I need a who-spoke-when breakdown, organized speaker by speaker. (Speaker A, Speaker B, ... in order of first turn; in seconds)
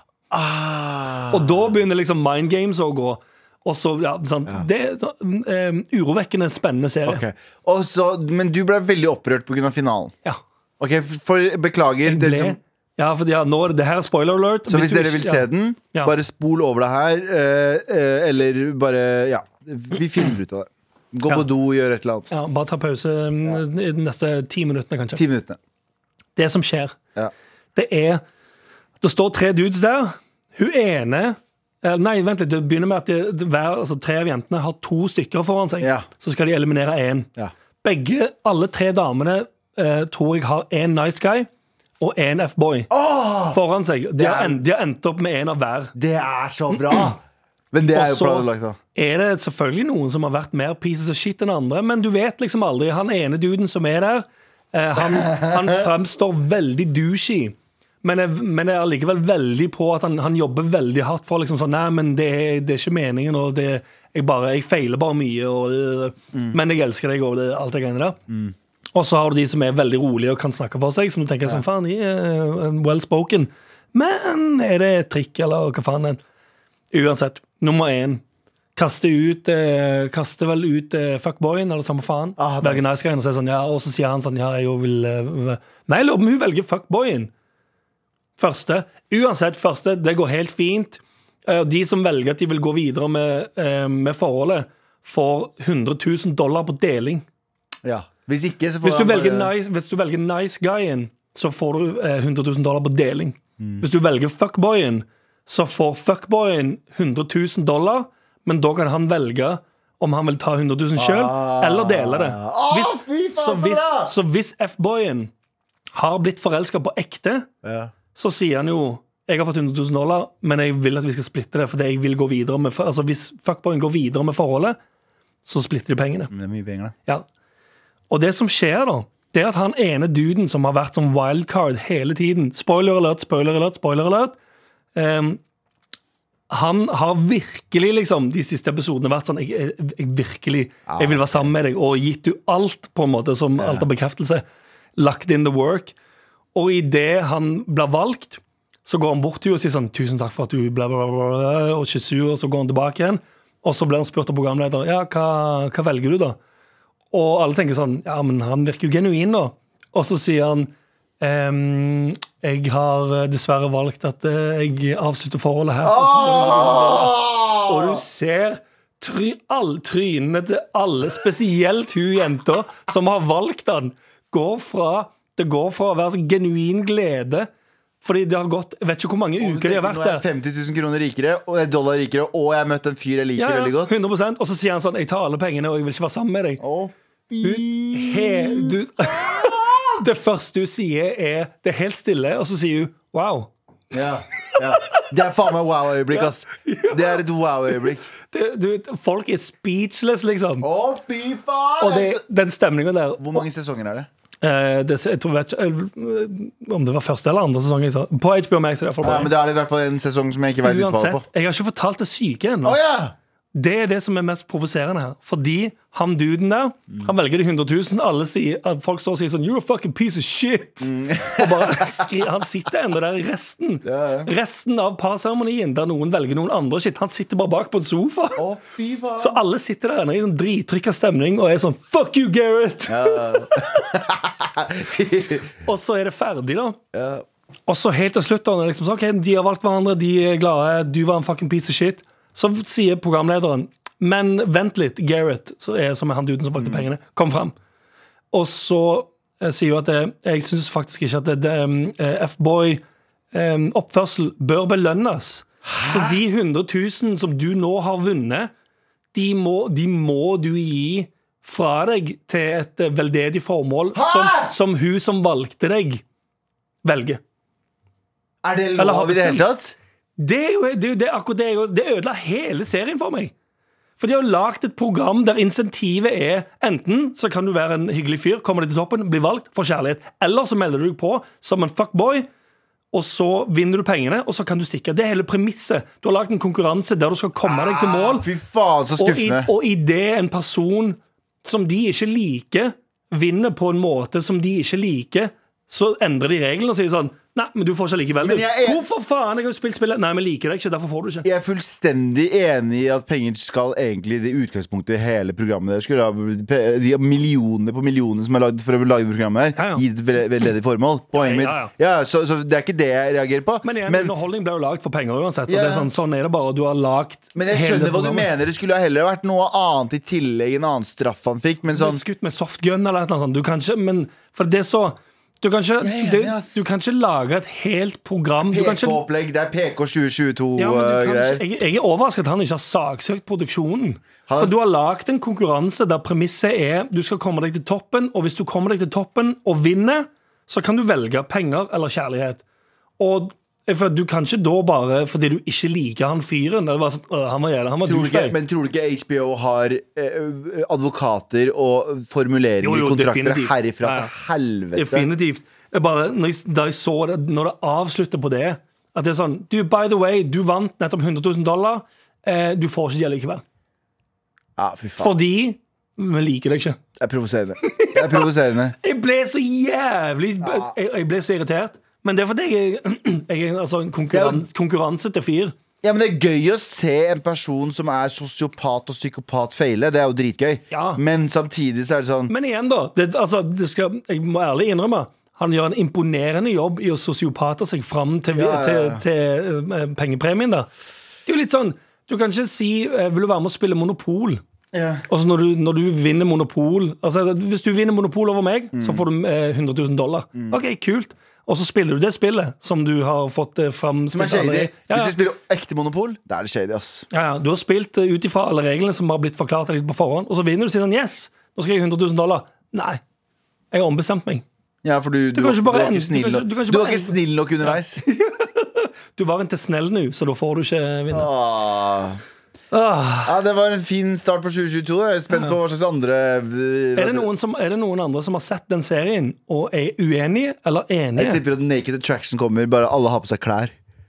Speaker A: 0.3-1.7, 7.0-10.1, 10.8-12.6, 14.7-22.3, 25.1-25.6, 35.8-36.1, 42.9-43.6, 44.1-44.6, 45.9-47.2, 47.7-48.8, 55.1-55.8, 66.3-66.6, 68.3-68.5, 82.4-82.9, 97.8-99.5, 111.0-114.1, 117.6-117.9, 126.3-126.9, 140.9-141.5, 143.6-143.8, 165.8-168.0, 179.4-184.0, 186.6-190.0, 193.9-198.0, 200.6-202.2, 203.2-204.1, 209.0-211.2, 212.6-213.1, 220.8-222.1, 223.8-224.3, 228.4-229.4, 232.9-235.5, 236.9-237.2, 246.6-246.8, 255.6-256.2, 263.9-264.5, 268.4-269.7, 287.4-289.5, 298.2-298.8, 301.2-314.1, 315.5-315.9, 317.3-322.0, 325.8-326.6, 328.5-331.4, 334.3-334.5, 347.9-355.1, 364.6-365.1, 367.0-368.8, 370.4-370.7, 374.1-374.4, 375.8-382.3, 388.3-389.0, 394.7-395.1, 398.7-399.0, 400.3-400.6, 404.1-407.1, 414.8-418.0, 421.1-422.2, 423.2-427.3, 431.1-433.7
Speaker B: 1.3-7.2, 12.0-16.1, 22.3-25.2, 26.4-27.0, 27.7-28.2, 29.0-37.3, 37.8-41.5, 42.0-42.9, 43.5-45.9, 46.8-47.1, 47.9-68.2, 68.9-76.2, 76.9-78.2, 78.8-87.3, 88.4-97.2, 98.8-115.3, 115.9-117.5, 118.1-124.8, 125.4-126.3, 128.1-134.4, 134.9-135.4, 136.5-144.4, 145.0-145.9, 146.5-156.4, 157.1-177.5, 178.0-180.2, 183.4-186.6, 187.4-193.5, 194.5-195.1, 196.1-200.7, 201.8-203.4, 204.4-209.3, 210.6-212.8, 213.5-228.4, 229.2-233.5, 235.6-236.8, 237.7-247.5, 248.3-252.8, 253.3-258.5, 259.1-266.0, 266.8-267.2, 268.8-269.4, 270.2-273.3, 274.0-282.3, 282.9-288.3, 289.0-301.3, 309.6-309.8, 311.1-311.7, 313.6-318.3, 321.7-329.0, 330.6-342.4, 343.0-348.4, 352.6-354.1, 354.7-363.4, 365.0-366.8, 367.6-368.3, 368.8-375.6, 380.7-381.0, 382.3-390.7, 391.2-394.4, 395.1-405.1, 407.1-413.0, 413.7-414.4, 415.3-421.3, 422.7-423.4, 425.3-425.6, 426.9-431.4